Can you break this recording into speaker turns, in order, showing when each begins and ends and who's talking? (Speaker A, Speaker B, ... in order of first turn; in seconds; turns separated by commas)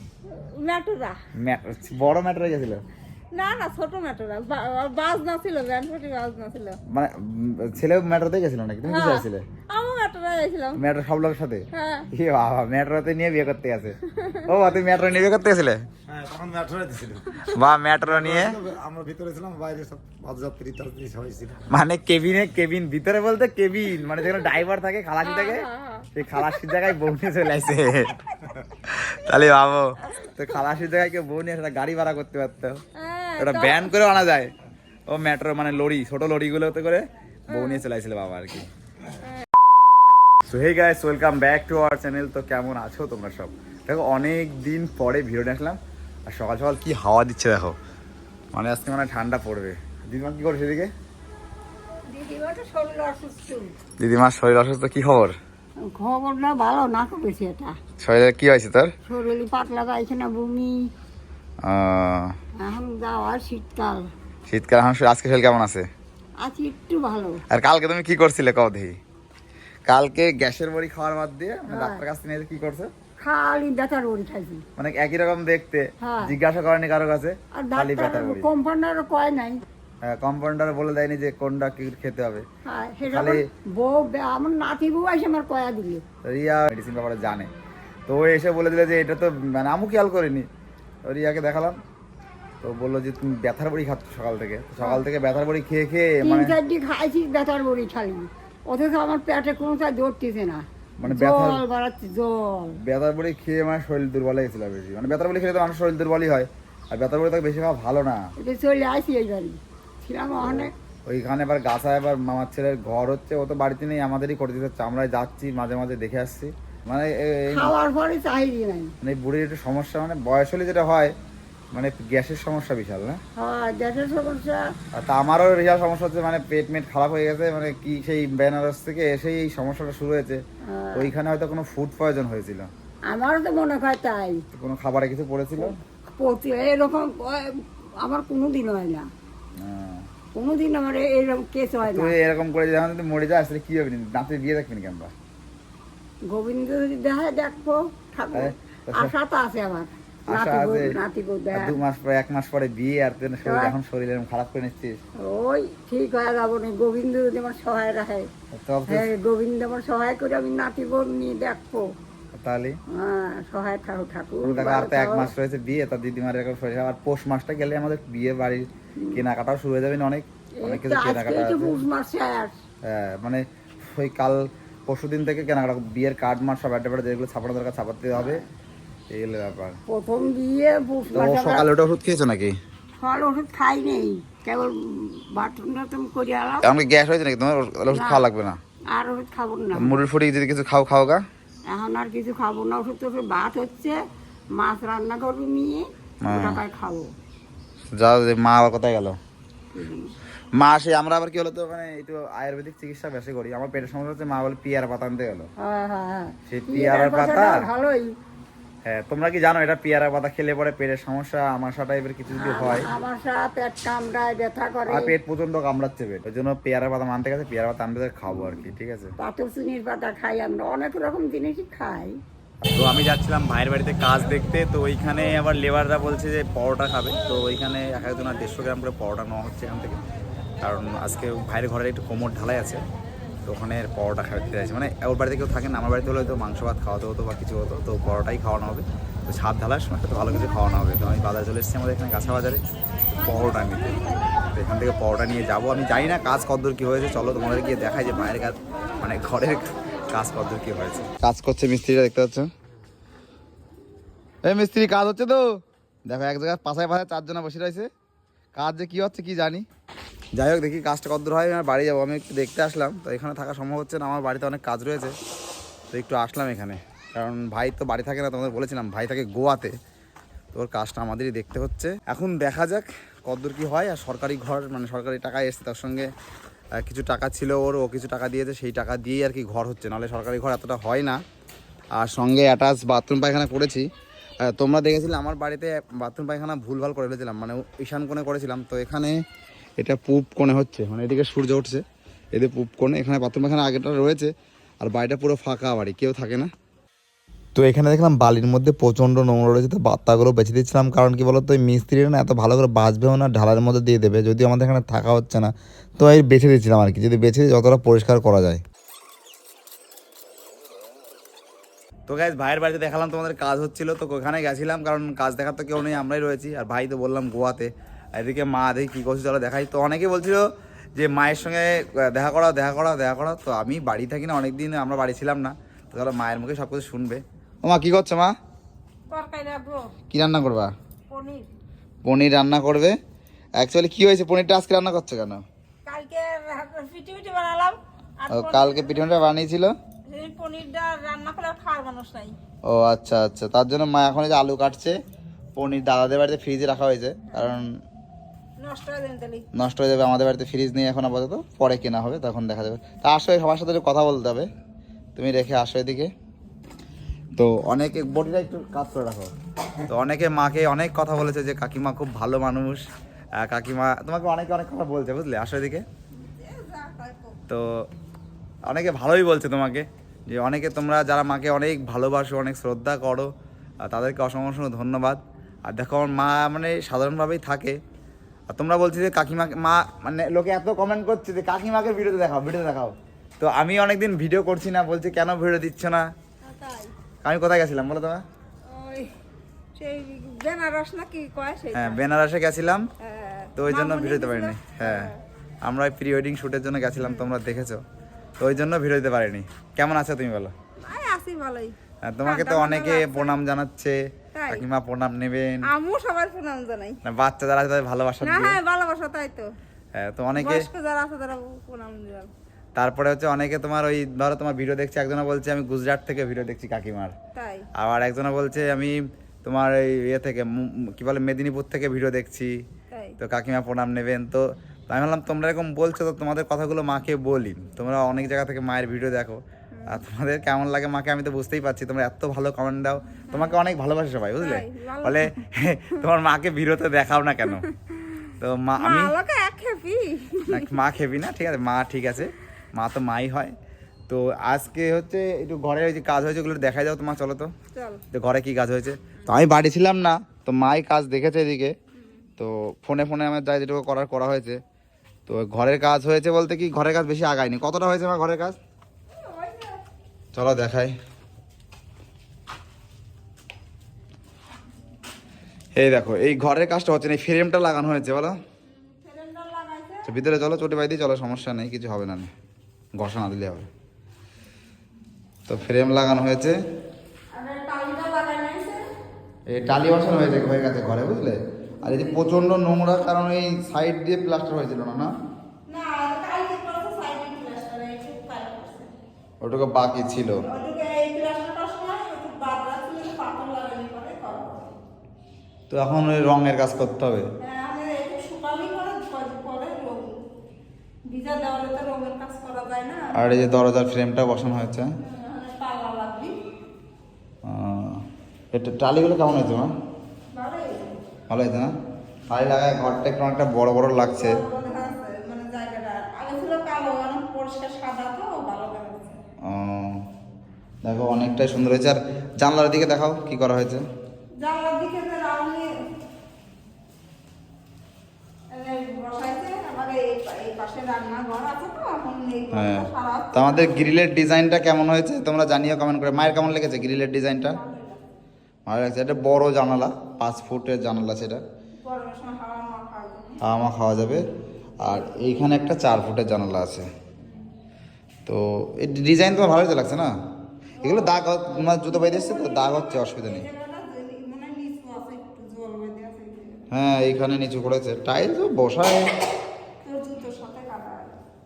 Speaker A: 0.3-1.2, Speaker B: 1.4-2.8, Speaker A: 3.3-6.8, Speaker B: 6.9-9.4, Speaker A: 8.9-10.8, Speaker B: 10.8-15.8, Speaker A: 11.7-12.1, Speaker A: 14.0-14.4, Speaker C: 16.1-17.5, Speaker B: 17.5-18.6, Speaker C: 18.0-21.6, Speaker B: 21.7-28.2, Speaker A: 24.2-24.5, Speaker A: 25.2-26.9, Speaker B: 28.8-32.8, Speaker A: 33.0-33.9, Speaker B: 33.4-34.5, Speaker B: 35.1-38.7, Speaker A: 37.5-37.8, Speaker B: 40.5-47.8, Speaker B: 48.5-50.9, Speaker D: 52.1-53.7, Speaker B: 54.0-55.4, Speaker D: 55.9-57.8, Speaker B: 58.0-58.9, Speaker D: 59.1-60.8, Speaker B: 61.6-62.4, Speaker D: 62.6-64.1, Speaker B: 64.5-65.9, Speaker D: 66.4-67.4, Speaker B: 67.5-69.0, Speaker B: 69.9-72.9, Speaker D: 71.7-72.0, Speaker D: 73.2-74.6, Speaker B: 74.8-78.5, Speaker D: 76.0-76.3, Speaker D: 77.5-79.6, Speaker B: 80.0-82.5, Speaker D: 82.7-86.0, Speaker B: 83.0-83.4, Speaker B: 86.2-87.5, Speaker B: 88.1-90.5, Speaker B: 91.0-91.8, Speaker B: 92.6-96.5, Speaker D: 94.8-95.0, Speaker D: 96.2-102.8, Speaker B: 101.0-101.6, Speaker B: 102.8-108.2, Speaker D: 108.4-110.7, Speaker B: 110.4-117.7, Speaker D: 117.5-118.9, Speaker B: 119.0-121.2, Speaker B: 121.7-123.2, Speaker D: 123.4-124.6, Speaker B: 124.9-130.4, Speaker D: 130.7-131.2, Speaker B: 130.9-132.7, Speaker D: 133.1-134.4, Speaker B: 134.5-135.8, Speaker D: 135.7-139.1, Speaker B: 139.6-140.1, Speaker D: 140.3-142.2, Speaker B: 141.9-145.1, Speaker D: 146.3-151.8, Speaker B: 148.3-149.1, Speaker B: 150.3-151.0, Speaker B: 151.5-155.0, Speaker D: 153.4-153.8, Speaker D: 155.2-158.3, Speaker B: 158.5-159.1, Speaker D: 158.9-161.8, Speaker B: 162.3-162.8, Speaker D: 163.0-165.3, Speaker B: 164.4-171.8, Speaker D: 170.6-172.5, Speaker B: 172.9-173.4, Speaker B: 173.9-178.4, Speaker D: 178.2-178.5, Speaker B: 179.1-179.8, Speaker D: 179.9-181.7, Speaker B: 181.1-182.6, Speaker D: 183.0-186.7, Speaker B: 186.6-188.6, Speaker D: 187.9-188.2, Speaker D: 188.9-190.0, Speaker B: 189.7-191.2, Speaker D: 191.7-194.0, Speaker D: 194.6-197.1, Speaker B: 196.2-196.6, Speaker B: 198.0-199.2, Speaker D: 199.7-200.1, Speaker B: 200.6-205.5, Speaker D: 205.6-208.1, Speaker B: 206.5-207.6, Speaker B: 208.8-212.9, Speaker D: 212.3-215.2, Speaker B: 214.9-219.1, Speaker D: 218.3-218.6, Speaker D: 219.2-222.2, Speaker B: 222.7-230.0, Speaker B: 230.6-232.8, Speaker B: 233.5-242.6, Speaker B: 243.2-244.0, Speaker A: 243.2-244.2, Speaker B: 244.5-252.5, Speaker A: 247.7-248.5, Speaker B: 254.4-255.4, Speaker B: 256.1-257.9, Speaker B: 258.6-259.6, Speaker B: 260.4-265.1, Speaker B: 265.9-269.7, Speaker B: 270.5-276.1, Speaker B: 276.8-281.2, Speaker B: 282.0-283.9, Speaker B: 284.4-289.2, Speaker B: 289.8-291.8, Speaker B: 292.3-296.5, Speaker B: 297.6-308.6, Speaker B: 312.1-320.4, Speaker B: 321.0-328.3, Speaker A: 329.1-329.9, Speaker B: 330.1-330.7, Speaker A: 331.1-331.5, Speaker B: 332.1-333.0, Speaker B: 333.6-335.4, Speaker A: 335.9-339.1, Speaker B: 338.3-339.7, Speaker A: 340.1-342.4, Speaker B: 342.7-344.9, Speaker B: 345.6-347.7, Speaker A: 347.3-347.6, Speaker A: 348.6-349.5, Speaker B: 349.5-354.5, Speaker B: 355.2-356.1, Speaker B: 357.4-359.3, Speaker B: 359.9-362.8, Speaker B: 363.4-365.8, Speaker A: 366.1-367.4, Speaker B: 368.7-373.3, Speaker B: 373.8-377.8, Speaker B: 378.5-386.1, Speaker A: 386.4-386.9, Speaker B: 387.2-388.2, Speaker A: 388.7-389.1, Speaker A: 389.8-392.0, Speaker B: 391.7-392.9, Speaker A: 393.1-395.1, Speaker B: 393.6-395.1, Speaker B: 395.6-397.8, Speaker A: 397.0-397.3, Speaker B: 398.4-400.5, Speaker A: 400.8-403.4, Speaker B: 402.1-405.7, Speaker A: 404.4-404.7, Speaker A: 405.7-407.0, Speaker B: 407.1-408.6, Speaker A: 408.2-409.5, Speaker B: 410.0-410.7, Speaker A: 410.4-412.3, Speaker B: 412.8-417.1, Speaker A: 417.4-417.7, Speaker B: 417.8-422.6, Speaker A: 422.9-423.2, Speaker B: 423.2-437.7, Speaker A: 429.7-430.0, Speaker A: 433.3-433.6, Speaker A: 434.4-435.3, Speaker A: 437.5-440.8, Speaker B: 438.4-439.1, Speaker B: 440.5-443.5, Speaker B: 444.1-447.5, Speaker A: 447.7-448.0, Speaker B: 448.1-451.7, Speaker B: 452.4-454.6, Speaker B: 455.3-458.6, Speaker A: 459.1-459.8, Speaker B: 460.3-460.9, Speaker B: 465.8-468.4, Speaker A: 468.7-470.1, Speaker B: 470.1-472.3, Speaker B: 473.0-473.7, Speaker B: 475.5-476.6, Speaker A: 477.3-478.8, Speaker B: 479.5-485.1, Speaker A: 481.8-482.4, Speaker A: 485.7-488.9, Speaker B: 489.4-490.4, Speaker A: 490.4-494.7, Speaker B: 495.7-497.2, Speaker A: 497.4-500.2, Speaker A: 501.1-503.1, Speaker B: 503.1-504.9, Speaker A: 505.0-506.4, Speaker B: 507.4-509.7, Speaker A: 510.3-511.0, Speaker B: 511.3-511.7, Speaker B: 512.3-514.4, Speaker A: 514.0-519.2, Speaker B: 519.5-520.0, Speaker B: 520.8-523.8, Speaker A: 524.4-525.9, Speaker A: 528.5-533.9, Speaker B: 532.5-537.6, Speaker A: 537.5-538.0, Speaker B: 538.7-541.4, Speaker A: 541.8-543.4, Speaker B: 543.4-544.2, Speaker B: 544.8-546.9, Speaker A: 547.2-547.5, Speaker B: 548.3-550.1, Speaker A: 550.8-556.7, Speaker B: 550.8-553.5, Speaker B: 556.7-559.1, Speaker A: 559.8-561.2